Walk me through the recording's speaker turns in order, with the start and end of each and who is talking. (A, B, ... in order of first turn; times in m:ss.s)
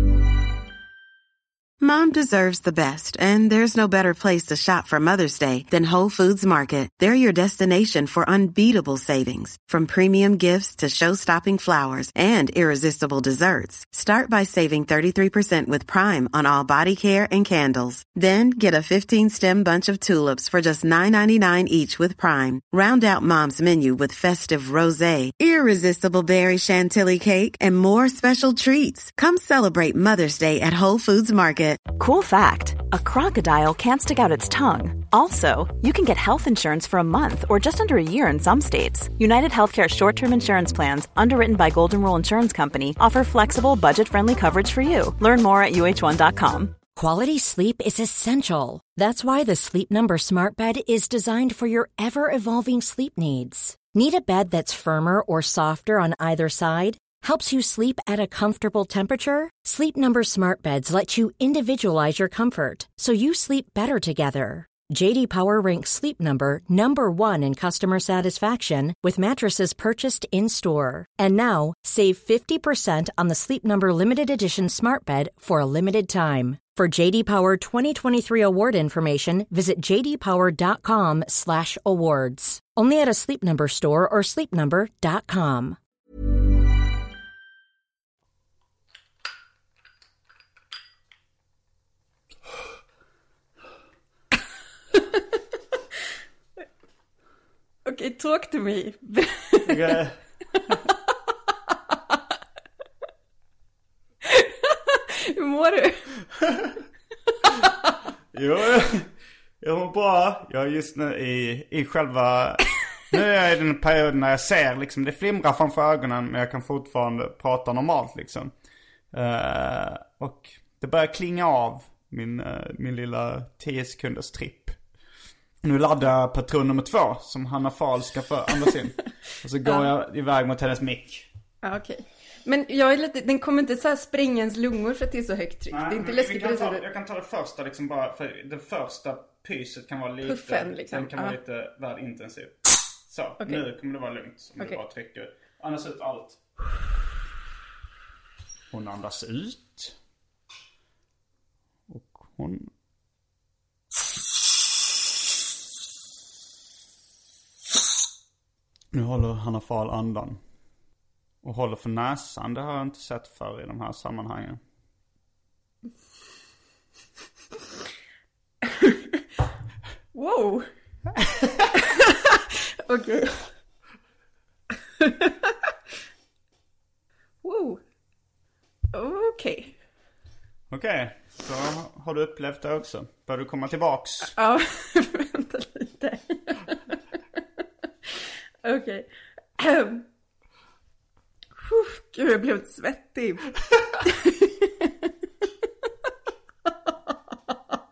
0:01.8-0:31.8 A
0:31.9-0:46.8 B
0:46.9-1:25.8 C
1:37.8-1:40.0 D
1:39.6-1:40.2 E
1:44.2-1:46.1 D
1:48.3-1:49.1 E
1:49.6-1:58.5 E
1:59.1-2:04.7 E
2:05.6-2:11.3 E
2:11.6-2:16.8 D
2:15.7-2:26.4 E
2:20.2-2:21.4 D
2:28.7-2:29.9 E
2:31.9-2:32.7 E
2:38.9-2:40.4 E
2:41.4-2:44.6 E
2:48.6-2:49.2 D
2:50.1-2:50.7 D
2:51.7-2:53.5 D
2:55.0-2:55.5 D
2:57.4-2:57.8 D
2:58.9-2:59.8 D
3:00.7-3:04.3 E
3:04.3-3:07.0 D
3:08.6-3:09.1 D
3:09.6-3:10.0 D
3:11.6-3:13.5 D
3:14.0-3:15.1 D